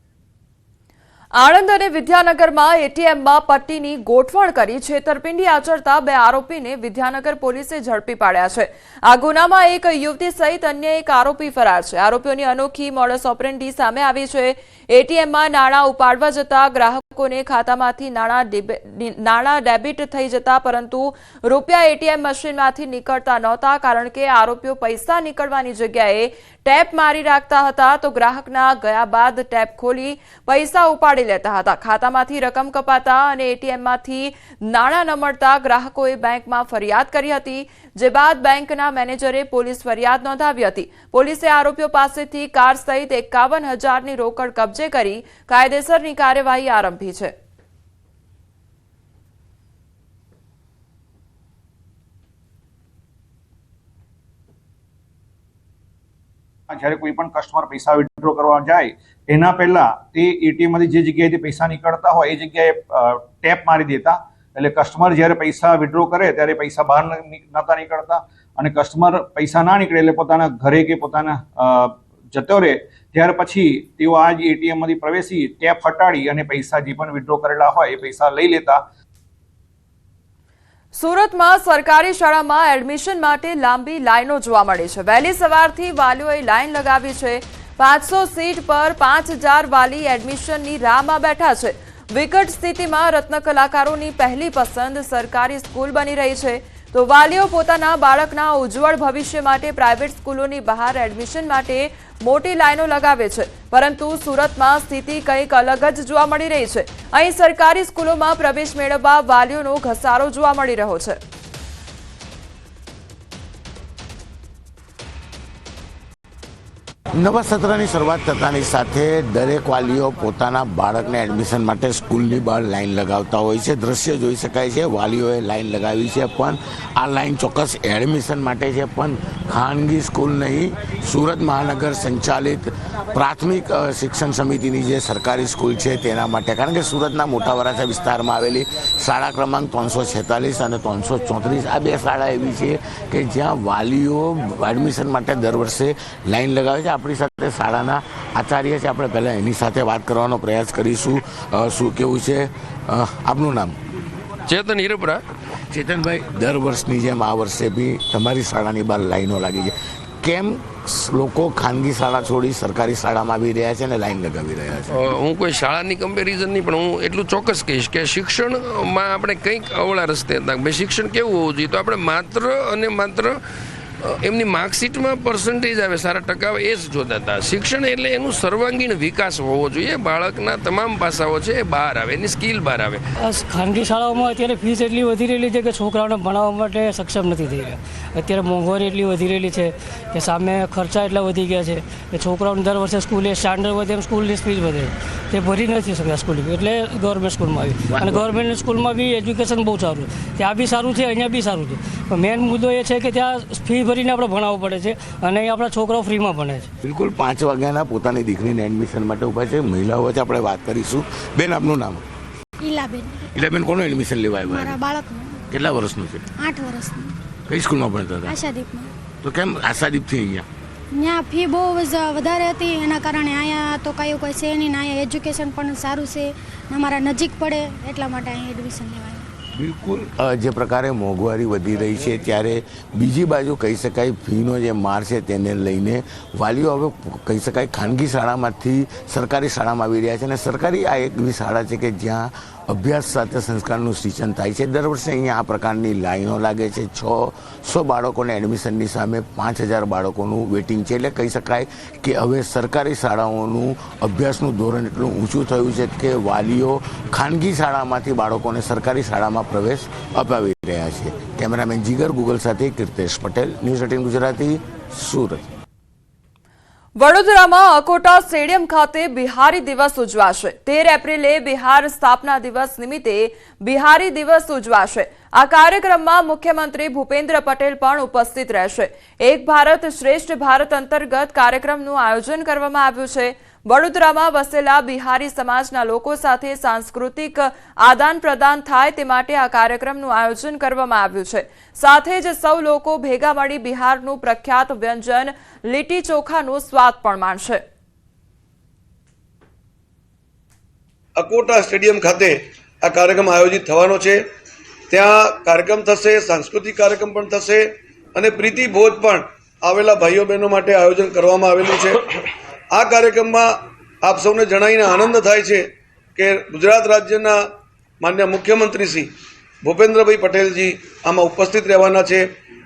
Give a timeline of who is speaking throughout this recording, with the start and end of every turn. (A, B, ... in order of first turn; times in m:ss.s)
0:01.4-0:47.3 A
0:56.7-1:18.8 B
1:21.0-1:51.2 A
1:57.2-2:33.8 C
2:34.5-2:35.2 D
2:35.7-2:45.1 C
2:44.9-2:53.4 D
2:54.0-3:03.0 D
3:03.2-3:26.7 E
3:17.9-3:18.2 C
3:26.8-3:32.0 C
3:32.6-3:33.3 F
3:33.4-3:34.8 C
3:34.4-3:35.4 F
3:35.5-3:36.2 C
3:36.4-3:37.2 F
3:37.5-3:38.4 C
3:38.3-3:38.9 F
3:39.2-3:40.5 C
3:40.9-3:49.3 F
3:49.6-4:25.4 C
4:27.0-4:57.6 A
5:01.2-5:04.2 G
5:04.9-5:12.1 G
5:12.7-5:17.4 G
5:18.0-5:19.1 G
5:19.6-5:22.3 G